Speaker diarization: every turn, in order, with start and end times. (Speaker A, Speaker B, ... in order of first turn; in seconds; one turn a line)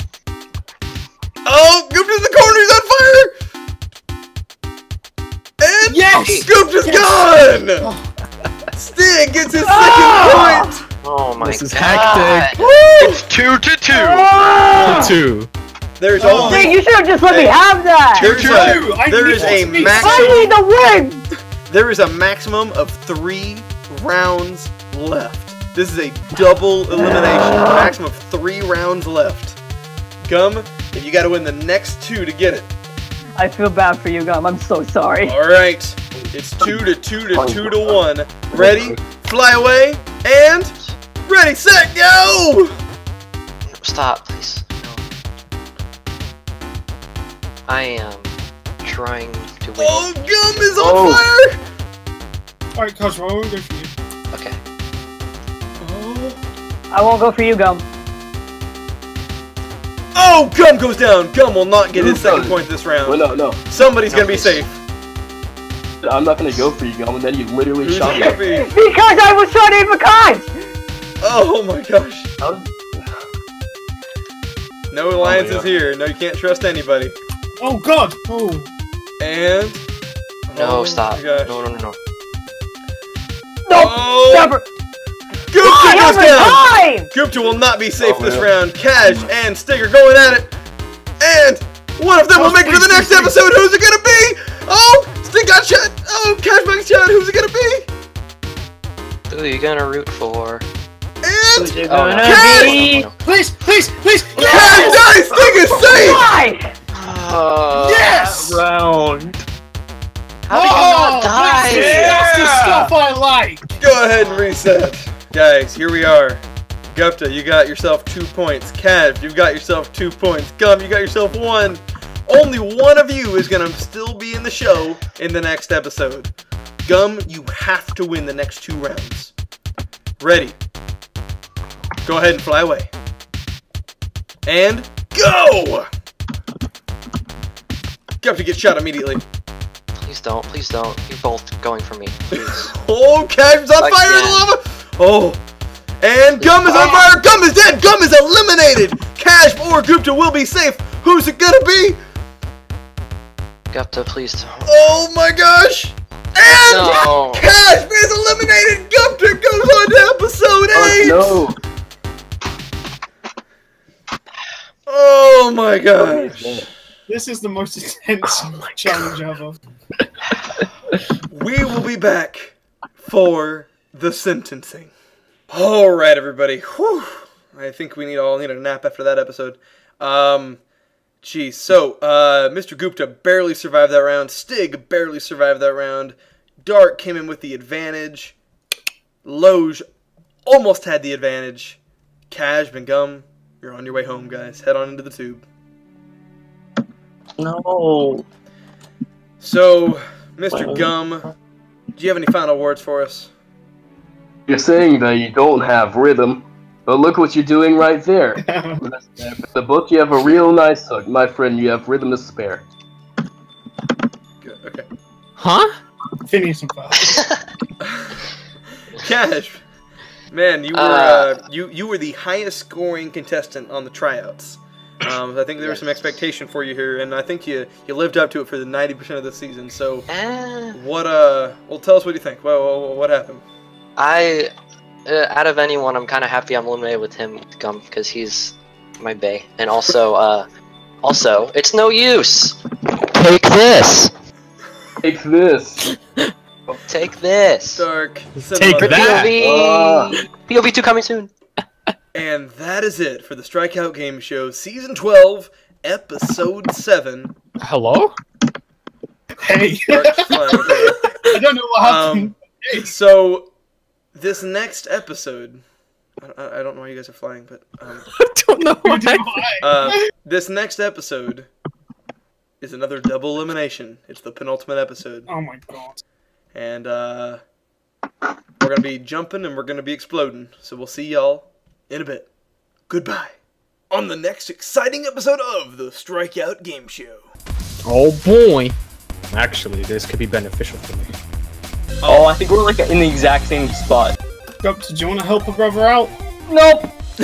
Speaker A: 1.4-3.3
Speaker A: 5.6-7.9
Speaker B: 5.9-7.2
Speaker C: 6.1-6.5
Speaker B: 7.8-8.1
Speaker A: 8.8-10.8
Speaker D: 9.6-10.8
Speaker C: 11.0-12.6
Speaker E: 11.4-12.6
Speaker A: 12.6-13.2
Speaker F: 13.0-14.3
Speaker D: 13.9-15.2
Speaker E: 14.8-15.5
Speaker A: 16.0-17.6
Speaker B: 16.2-16.8
Speaker D: 16.4-18.4
Speaker F: 18.1-19.0
Speaker A: 18.2-20.5
Speaker B: 18.2-20.5
Speaker D: 19.9-21.2
Speaker A: 21.7-29.6
Speaker D: 27.2-27.9
Speaker A: 30.2-32.7
Speaker D: 33.4-35.4
Speaker A: 35.2-40.7
Speaker G: 36.2-38.0
Speaker G: 38.5-39.0
Speaker A: 41.2-42.8
Speaker C: 43.7-45.0
Speaker C: 47.7-48.3
Speaker C: 48.8-50.6
Speaker A: 49.8-51.6
Speaker G: 50.8-51.3
Speaker B: 52.8-53.9
Speaker C: 54.3-54.6
Speaker A: 55.8-56.4
Speaker D: 56.9-57.9
Speaker A: 60.1-64.8
Speaker G: 61.9-63.6
Speaker C: 64.1-64.6
Speaker G: 66.0-68.4
Speaker A: 67.8-68.7
Speaker D: 68.0-70.5
Speaker A: 71.2-72.3
Speaker G: 72.4-72.9
Speaker A: 74.9-77.2
Speaker G: 75.2-75.7
Speaker B: 77.6-78.7
Speaker A: 79.2-79.8
Speaker A: 80.5-81.6
Speaker C: 80.5-82.0
Speaker D: 83.7-84.7
Speaker A: 83.7-84.5
Speaker A: 85.5-90.5
Speaker D: 85.6-87.1
Speaker G: 88.0-89.3
Speaker A: 91.2-97.9
Speaker B: 92.3-93.4
Speaker C: 99.3-100.6
Speaker A: 101.2-102.8
Speaker D: 101.5-103.1
Speaker C: 101.9-103.1
Speaker B: 103.2-104.9
Speaker A: 104.4-106.3
Speaker D: 104.4-106.7
Speaker C: 106.9-108.2
Speaker B: 107.8-108.6
Speaker H: 108.1-109.4
Speaker C: 110.5-112.2
Speaker B: 110.5-113.8
Speaker H: 111.7-112.9
Speaker A: 111.8-112.2
Speaker A: 113.8-126.3
Speaker A: 126.8-129.3
Speaker A: 130.2-130.6
Speaker A: 132.1-132.9
Speaker A: 134.5-135.9
Speaker A: 138.2-139.2
Speaker C: 140.0-142.7
Speaker A: 142.3-145.4
Speaker C: 143.8-144.4
Speaker A: 146.0-152.0
Speaker C: 146.4-147.1
Speaker C: 153.7-154.7
Speaker A: 154.6-161.5
Speaker C: 156.4-157.5
Speaker G: 160.7-161.6
Speaker A: 164.9-166.6
Speaker G: 166.0-166.7
Speaker B: 167.1-169.6
Speaker A: 171.3-174.9
Speaker A: 175.5-180.6
Speaker A: 181.2-188.4
Speaker A: 189.2-189.8
Speaker A: 190.5-191.8
Speaker A: 192.3-195.4
Speaker H: 197.4-198.2
Speaker A: 199.4-201.3
Speaker H: 200.5-200.9
Speaker A: 202.0-203.3
Speaker G: 204.5-212.6
Speaker B: 208.4-208.8
Speaker A: 214.4-214.9
Speaker E: 215.4-215.8
Speaker B: 216.3-217.3
Speaker A: 217.8-218.2
Speaker A: 219.0-219.6
Speaker A: 220.3-230.1
Speaker C: 220.7-221.4
Speaker C: 225.6-225.9
Speaker C: 230.1-230.8
Speaker A: 230.7-233.4
Speaker C: 234.0-234.5
Speaker C: 235.1-240.5
Speaker C: 241.0-242.6
Speaker C: 243.1-244.1
Speaker G: 245.0-245.9
Speaker C: 246.9-247.8
Speaker A: 247.8-249.3
Speaker E: 248.4-249.3
Speaker C: 248.8-251.3
Speaker G: 249.3-250.2
Speaker A: 252.1-257.3
Speaker E: 257.6-258.2
Speaker B: 259.4-262.9
Speaker A: 259.9-261.0
Speaker A: 261.8-263.5
Speaker A: 264.1-265.6
Speaker A: 266.2-268.1
Speaker E: 268.1-269.5
Speaker B: 268.8-270.0
Speaker A: 269.6-271.5
Speaker A: 272.6-275.3
Speaker B: 275.3-276.0
Speaker A: 276.5-277.4
Speaker A: 278.6-282.3
Speaker A: 282.9-283.4
Speaker A: 283.9-287.3
Speaker E: 287.9-288.8
Speaker E: 289.3-291.1
Speaker A: 292.0-292.3
Speaker H: 292.1-294.2
Speaker B: 294.6-296.1
Speaker D: 296.5-296.9